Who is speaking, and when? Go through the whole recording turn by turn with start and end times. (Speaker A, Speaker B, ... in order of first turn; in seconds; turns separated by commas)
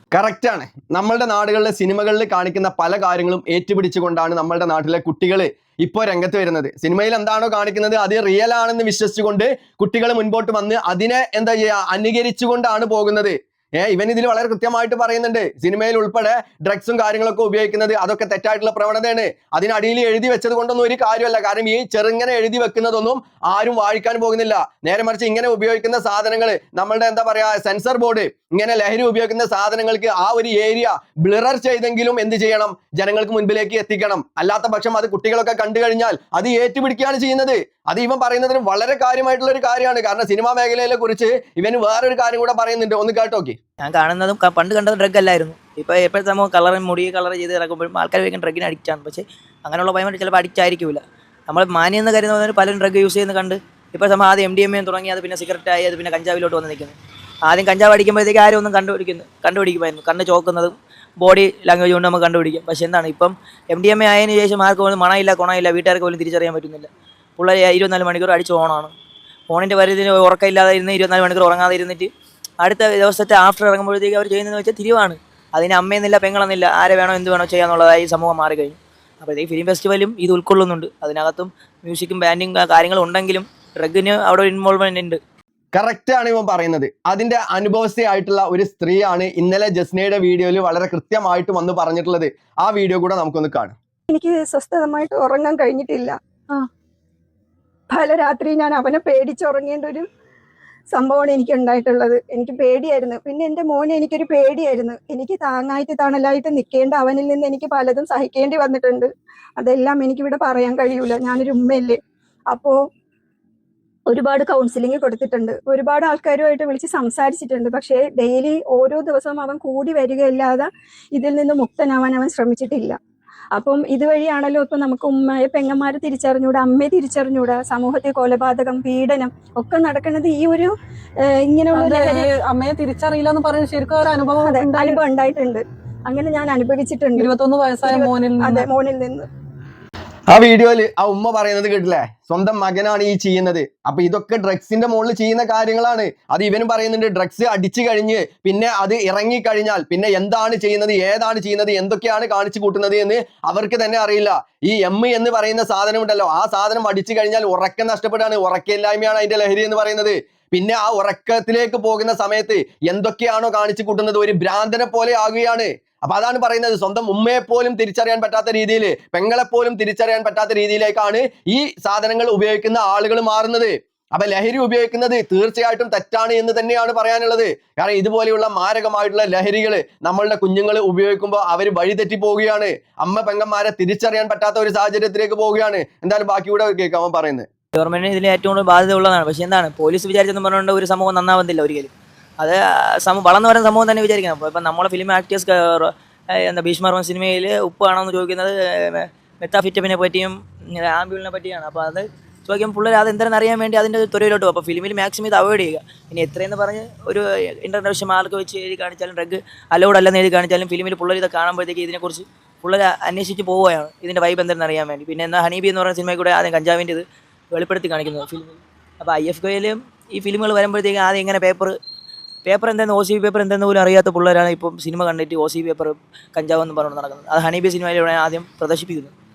Speaker A: 0.1-43.5, Speaker B: 43.8-57.0, Speaker B: 57.5-68.9, Speaker B: 69.5-72.1, Speaker B: 72.6-85.2, Speaker A: 85.7-93.7, Speaker C: 94.1-96.1, Speaker C: 97.9-100.0, Speaker C: 100.9-112.0, Speaker C: 112.5-112.8, Speaker C: 114.1-123.0, Speaker C: 123.5-130.7, Speaker C: 131.3-132.2, Speaker D: 131.7-135.0, Speaker C: 134.4-137.3, Speaker D: 137.1-138.7, Speaker C: 137.8-139.2, Speaker A: 140.3-187.5, Speaker B: 187.7-221.8, Speaker B: 222.4-229.1